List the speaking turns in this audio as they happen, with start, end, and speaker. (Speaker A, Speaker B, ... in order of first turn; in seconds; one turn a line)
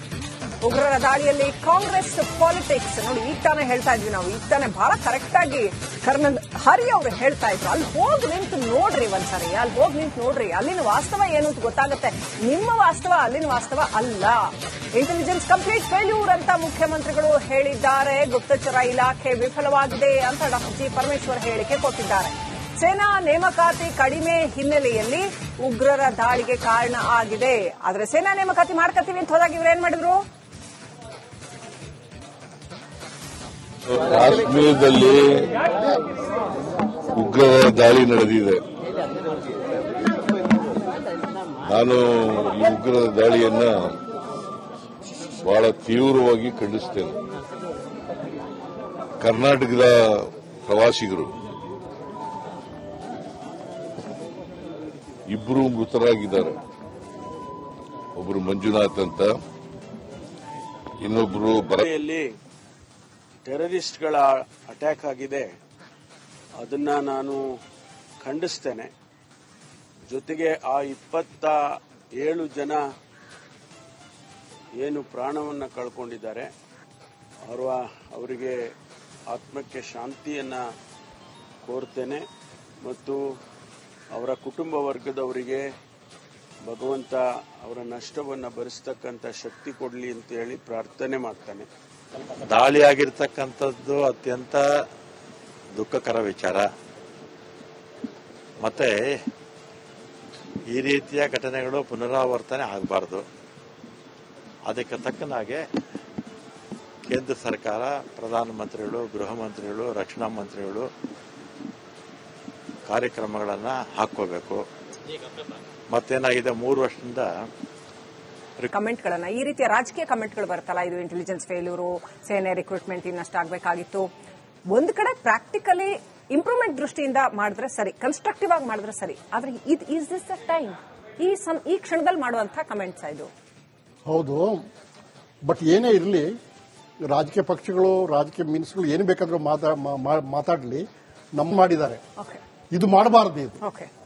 Speaker A: 0.6-30.2
Speaker B: 33.9-35.5
Speaker B: 37.1-38.6
Speaker B: 41.7-44.0
Speaker B: 45.4-47.2
Speaker B: 49.2-51.3
Speaker B: 55.3-56.6
Speaker B: 58.2-59.3
Speaker B: 61.0-61.8
Speaker C: 61.8-62.3
Speaker C: 63.5-65.5
Speaker C: 66.6-67.4
Speaker C: 68.2-68.9
Speaker C: 70.1-71.6
Speaker C: 72.2-72.8
Speaker C: 74.8-76.5
Speaker C: 77.5-78.6
Speaker C: 79.3-80.6
Speaker C: 81.7-82.2
Speaker C: 82.8-83.2
Speaker C: 84.2-85.7
Speaker C: 86.7-91.7
Speaker D: 92.5-94.6
Speaker D: 95.8-96.6
Speaker D: 98.6-99.0
Speaker D: 100.7-103.2
Speaker D: 104.7-105.6
Speaker D: 107.1-110.9
Speaker D: 112.9-114.6
Speaker D: 115.9-117.3
Speaker A: 118.7-124.1
Speaker A: 124.7-133.3
Speaker E: 134.1-134.6
Speaker E: 135.4-136.3
Speaker E: 137.1-142.0
Speaker E: 142.7-143.6
Speaker A: 143.6-143.9